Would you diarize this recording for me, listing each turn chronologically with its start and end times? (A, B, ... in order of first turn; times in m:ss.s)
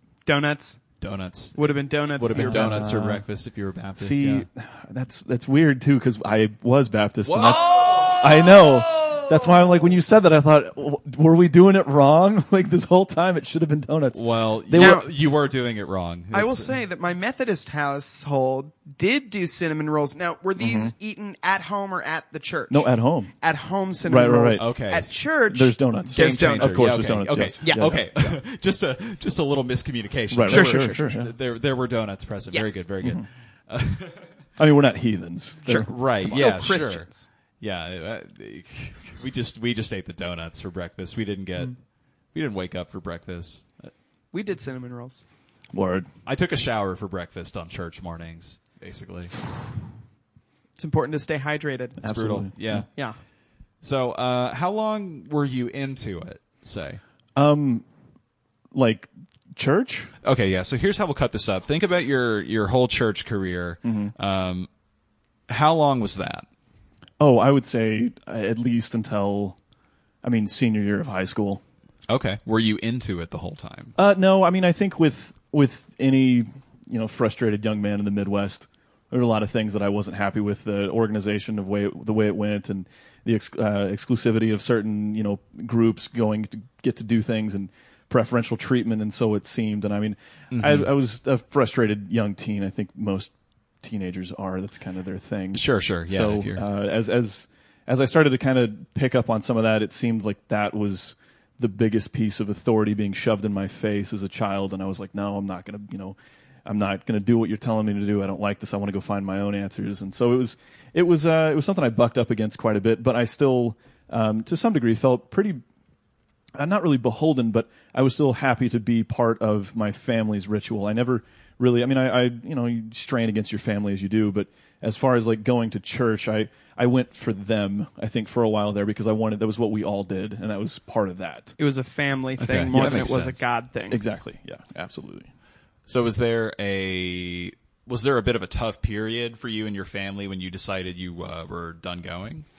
0:00.2-0:00.8 A
0:01.0-0:04.4 B
0:01.6-0:02.9 A
0:02.3-0:03.2 C
0:04.0-0:15.1 C
0:07.2-0:08.3 B
0:07.4-0:09.5 A
0:14.1-0:16.7 B
0:14.8-0:15.0 A
0:16.3-0:22.9 A
0:20.6-0:20.9 C
0:22.7-0:23.3 C
0:23.4-0:27.0 A
0:24.0-0:24.6 C
0:24.6-0:25.2 B
0:25.5-0:28.1 C
0:26.1-0:34.2 B
0:27.6-0:28.3 A
0:30.3-0:31.3 C
0:30.5-0:31.1 A
0:32.5-0:32.8 A
0:34.6-0:36.6 C
0:35.6-0:37.3 A
0:35.9-0:37.1 B
0:37.6-0:41.7 B
0:42.3-0:43.9 B
0:44.3-0:45.2 A
0:45.7-0:46.1 C
0:46.2-0:49.3 B
0:50.8-0:52.1 A
0:52.0-0:52.8 C
0:52.0-0:52.9 B
0:53.8-0:57.0 B
0:57.4-0:57.8 C
0:58.7-1:00.1 C
1:00.2-1:04.7 B
1:03.8-1:04.1 C
1:05.5-1:06.4 B
1:07.2-1:09.6 C
1:10.2-1:11.6 C
1:12.1-1:13.9 B
1:14.0-1:55.6 C
1:30.5-1:30.9 B
1:35.5-1:36.6 B
1:56.6-2:11.5 C
2:11.6-2:14.0 A
2:12.4-2:13.2 C
2:12.5-2:13.4 B
2:13.9-2:15.3 C
2:15.9-2:22.4 B